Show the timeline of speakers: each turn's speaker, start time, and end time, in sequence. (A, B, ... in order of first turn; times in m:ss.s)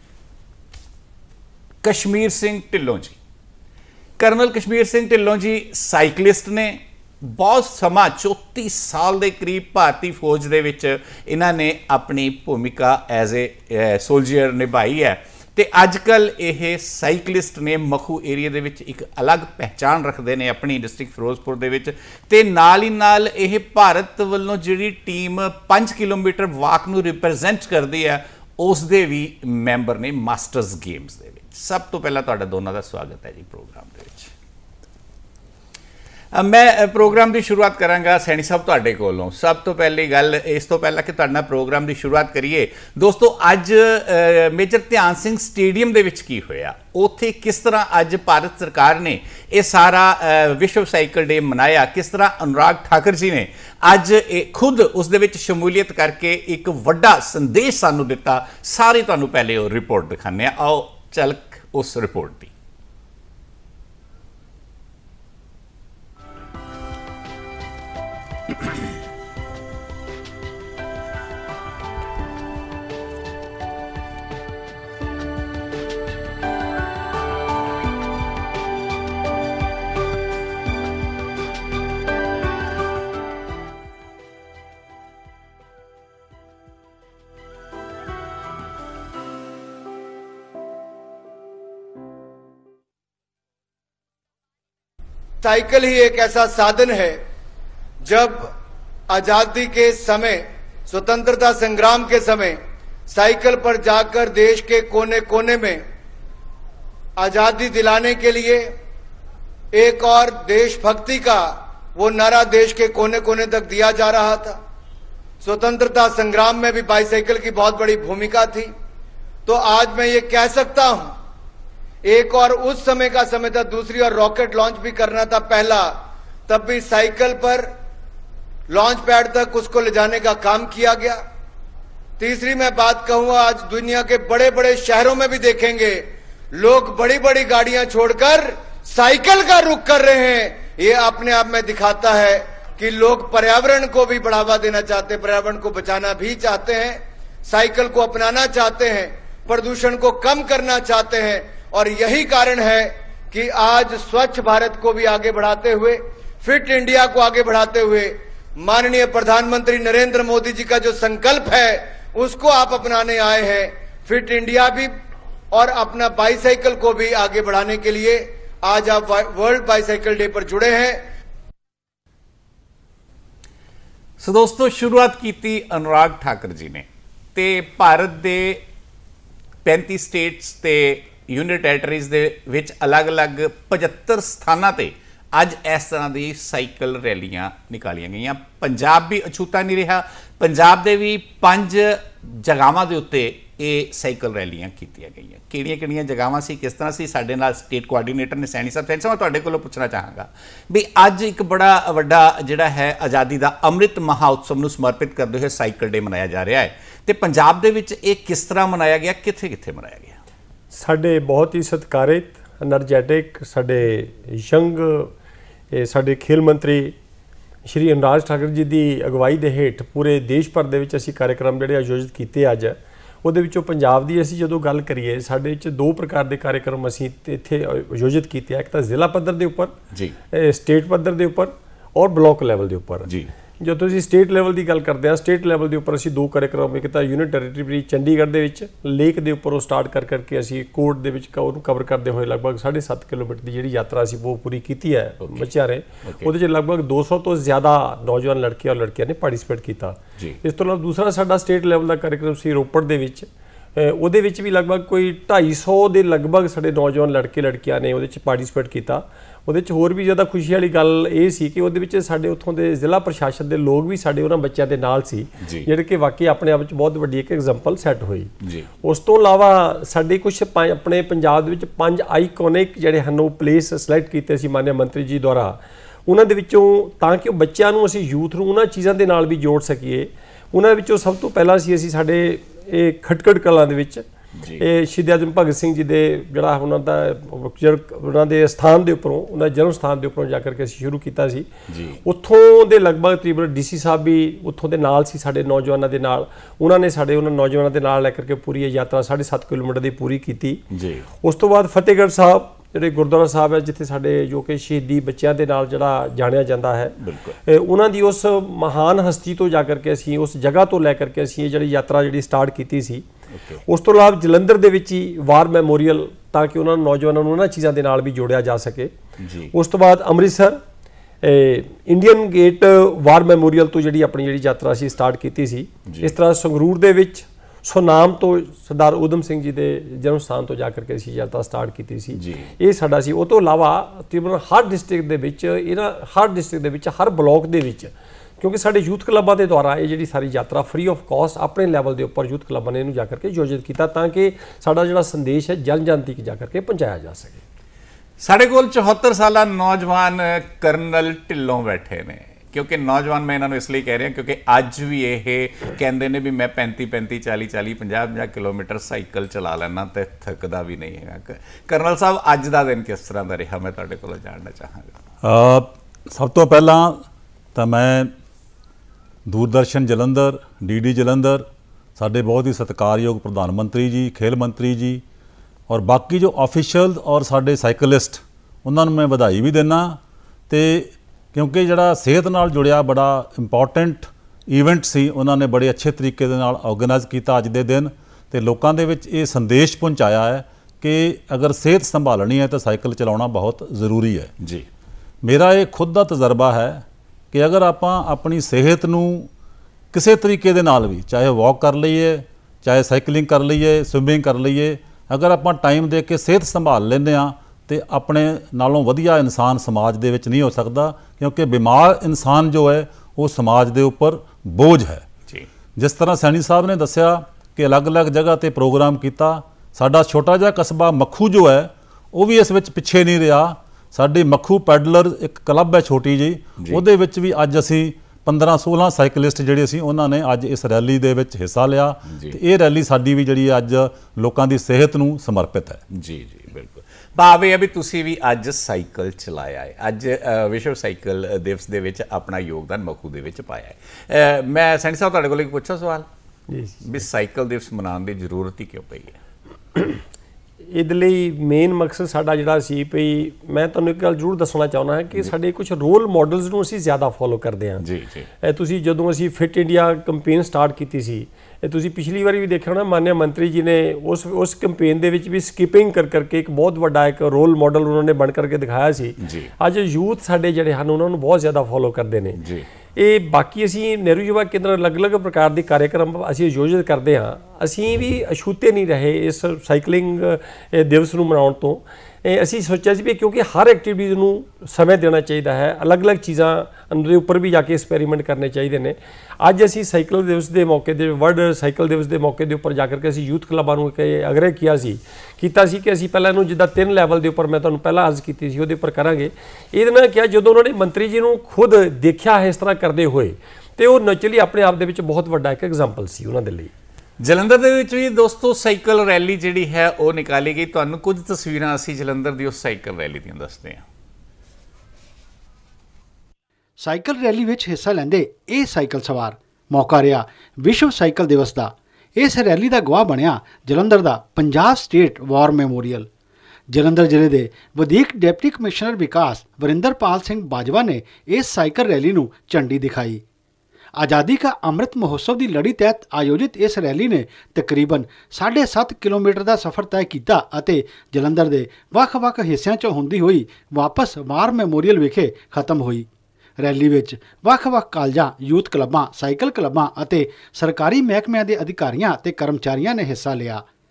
0:01.8-0:03.2 A
0:04.2-0:34.3 A
0:36.3-1:02.5 A
1:35.4-1:37.2 B
1:38.0-1:38.5 B
1:39.1-1:45.8 B
1:47.2-1:48.7 B
1:49.7-1:54.6 B
1:55.4-1:58.7 B
1:59.5-2:01.1 B
2:02.0-2:05.9 B
2:06.5-2:07.7 B
2:08.7-2:11.2 B
2:12.2-2:44.9 B
2:45.5-2:51.0 B
2:54.2-2:58.6 A
2:59.6-3:30.2 A
3:30.7-3:35.1 C
3:35.7-3:36.9 C
3:37.7-3:49.7 C
3:50.3-3:53.1 C
3:53.0-3:53.3 A
3:53.6-4:28.3 C
4:06.0-4:06.3 A
4:25.4-4:25.7 A
4:28.4-4:28.7 A
4:28.8-4:44.0 C
4:44.4-4:44.6 A
4:44.6-4:51.5 C
4:51.7-4:52.0 A
4:52.0-5:00.6 C
5:00.7-5:01.1 A
5:01.2-5:13.0 C
5:07.0-5:07.4 A
5:13.3-5:13.6 A
5:13.7-5:18.9 C
5:19.2-5:19.5 A
5:19.5-5:20.6 C
5:21.2-5:47.4 C
5:25.9-5:26.1 A
5:32.1-5:32.5 A
5:48.2-6:05.0 A
6:05.2-6:07.0 D
6:07.5-6:08.1 D
6:09.3-6:11.4 D
6:12.0-6:15.0 D
6:15.7-6:20.0 D
6:20.5-6:34.3 D
6:34.4-6:34.7 A
6:35.2-6:39.3 D
6:39.9-6:55.0 D
6:55.8-7:15.8 D
7:12.1-7:12.4 A
7:15.9-7:26.1 A
7:26.5-7:26.8 C
7:26.8-7:29.2 A
7:30.7-7:37.8 C
7:37.8-7:38.3 A
7:38.4-7:52.4 C
7:49.2-7:49.5 A
7:52.4-7:52.6 A
7:53.0-8:26.7 C
8:27.2-8:33.8 A
8:36.8-8:46.1 E
8:46.7-8:53.2 E
8:54.0-9:06.1 E
9:06.6-9:13.6 E